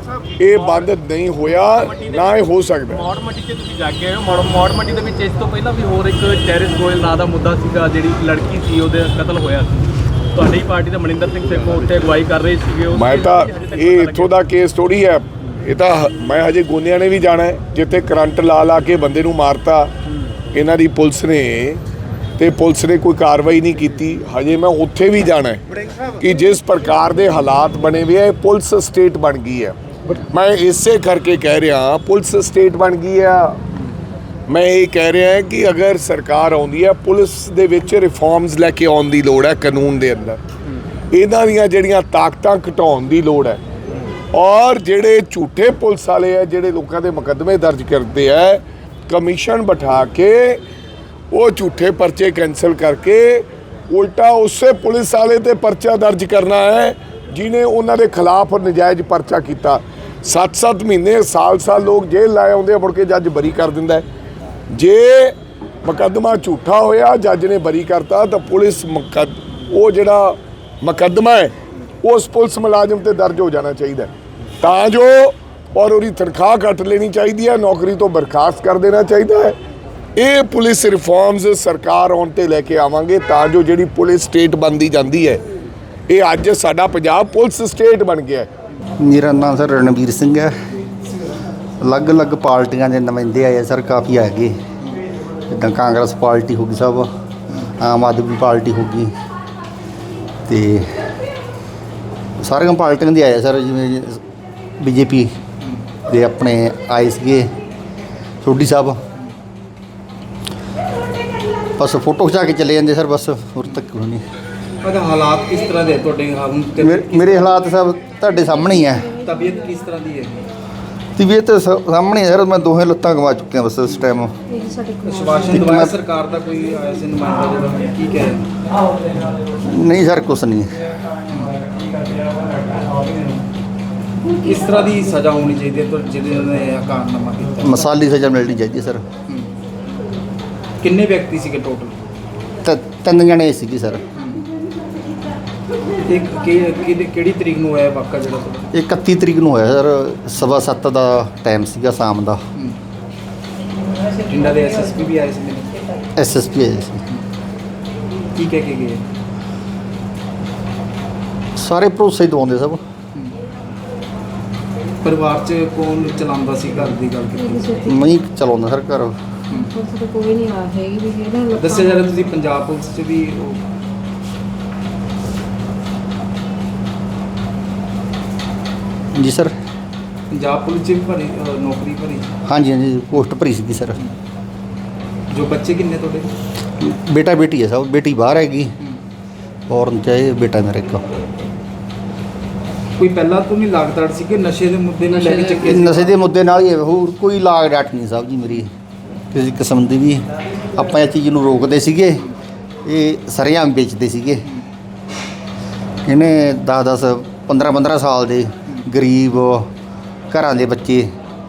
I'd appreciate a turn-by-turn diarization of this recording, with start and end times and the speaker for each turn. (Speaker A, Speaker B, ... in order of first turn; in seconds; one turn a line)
Speaker A: 0.4-3.1
Speaker B: 3.0-14.3
Speaker A: 12.9-19.9
Speaker A: 20.5-21.8
Speaker A: 22.4-25.6
Speaker A: 26.2-33.6
Speaker A: 34.5-40.4
Speaker A: 41.1-43.6
Speaker A: 44.3-50.6
Speaker A: 51.3-64.1
Speaker A: 64.7-74.1
Speaker A: 74.6-79.6
Speaker A: 80.2-85.4
Speaker A: 86.1-88.5
Speaker C: 89.0-90.5
Speaker C: 91.8-94.6
Speaker C: 95.5-97.1
Speaker C: 97.8-99.1
Speaker C: 100.5-100.9
Speaker C: 102.4-104.2
Speaker C: 104.8-105.3
Speaker C: 106.1-107.5
Speaker C: 108.4-109.0
Speaker C: 111.8-114.2
Speaker D: 114.8-117.6
Speaker C: 116.8-119.1
Speaker D: 119.2-120.4
Speaker C: 121.2-124.3
Speaker E: 124.5-125.6
Speaker D: 125.0-128.4
Speaker C: 125.5-125.9
Speaker C: 129.6-130.7
Speaker D: 131.3-131.5
Speaker D: 134.3-137.7
Speaker C: 137.6-139.0
Speaker D: 140.8-141.9
Speaker C: 142.6-144.0
Speaker D: 144.1-144.4
Speaker D: 146.1-148.7
Speaker C: 148.7-152.4
Speaker D: 154.2-155.7
Speaker C: 156.2-157.0
Speaker D: 158.3-159.0
Speaker C: 161.6-162.8
Speaker D: 165.0-167.9
Speaker E: 167.6-167.9
Speaker C: 167.9-169.1
Speaker D: 169.5-169.7
Speaker E: 169.7-171.9
Speaker D: 171.5-173.6
Speaker C: 179.1-179.5
Speaker D: 180.3-182.3
Speaker C: 182.4-184.0
Speaker D: 185.3-186.3
Speaker C: 186.8-188.7
Speaker C: 189.7-191.0
Speaker D: 193.0-196.1
Speaker C: 195.6-198.7
Speaker C: 199.3-202.2
Speaker C: 202.8-204.5
Speaker C: 206.1-209.7
Speaker C: 210.3-211.1